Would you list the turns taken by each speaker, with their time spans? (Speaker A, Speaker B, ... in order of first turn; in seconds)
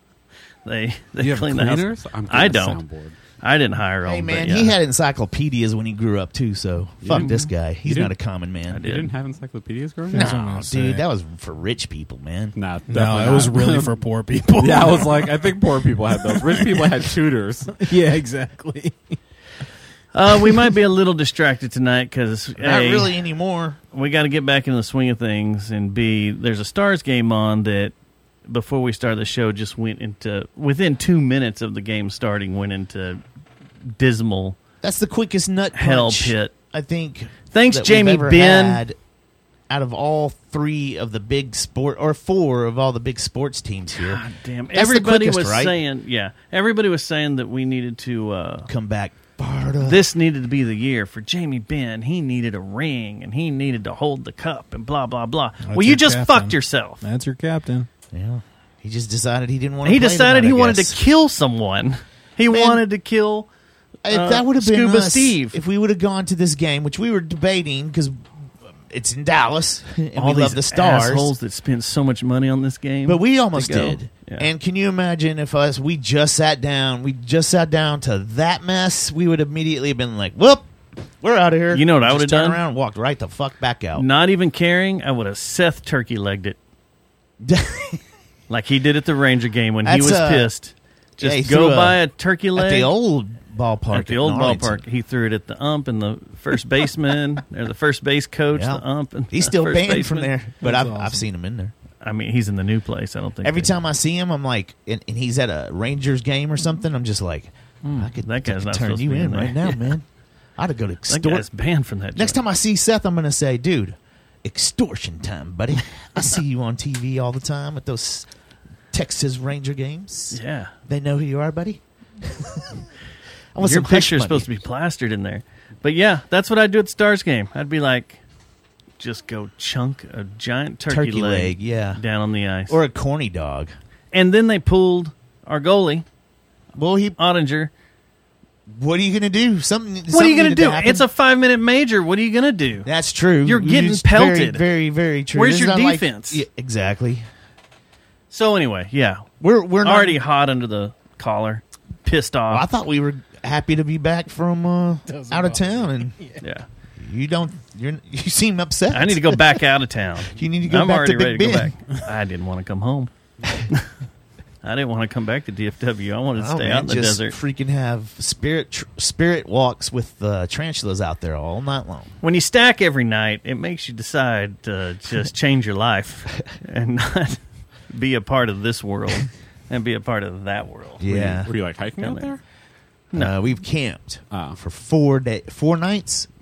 Speaker A: 0.7-2.8, 3.4-4.8, 7.1-7.4, 8.7-9.1, 20.1-23.1, 23.9-27.9, 28.5-33.2, 33.9-34.6, 35.7-36.5, 37.5-38.8, 44.0-48.7, 49.8-57.0, 59.8-63.5, 64.1-65.6, 70.2-74.5, 81.7-82.6, 84.0-86.6, 88.5-92.9, 93.9-100.3, 102.0-103.7, 107.8-109.9, 111.1-112.4, 120.3-120.7, 123.6-128.2, 129.0-132.8, 134.1-136.1, 137.2-137.7, 140.1-142.9, 143.4-144.7, 145.3-146.4, 148.3-149.3, 149.8-152.7, 156.4-156.7, 158.9-163.1, 164.6-167.4, 172.2-181.1, 182.0-182.3
Speaker B: 1.2-1.5, 10.1-11.1, 12.9-15.5, 16.1-17.1, 17.8-19.2, 55.6-57.9, 100.6-101.3, 155.1-156.4
Speaker C: 1.4-3.2, 7.0-8.1, 8.8-10.4, 12.6-14.0, 14.6-17.9, 181.1-182.4, 184.3-184.6
Speaker D: 4.1-8.9, 10.1-12.6, 22.6-23.8, 34.8-39.0, 39.7-44.2, 44.7-45.8, 48.7-50.0, 58.1-61.0, 62.5-62.8, 64.1-68.2, 68.9-71.3, 73.1-84.0, 87.4-88.0, 89.8-90.5, 91.2-92.0, 92.6-94.8, 98.5-101.7, 103.4-110.0, 110.6-111.5, 112.2-118.3, 118.9-122.7, 123.5-124.5, 130.9-132.0, 132.7-133.7, 136.8-137.2, 138.8-141.1, 142.8-147.2, 149.4-150.2, 152.5-156.2, 157.0-159.6, 160.3-161.7, 166.4-172.1, 181.0-181.5, 183.1-186.3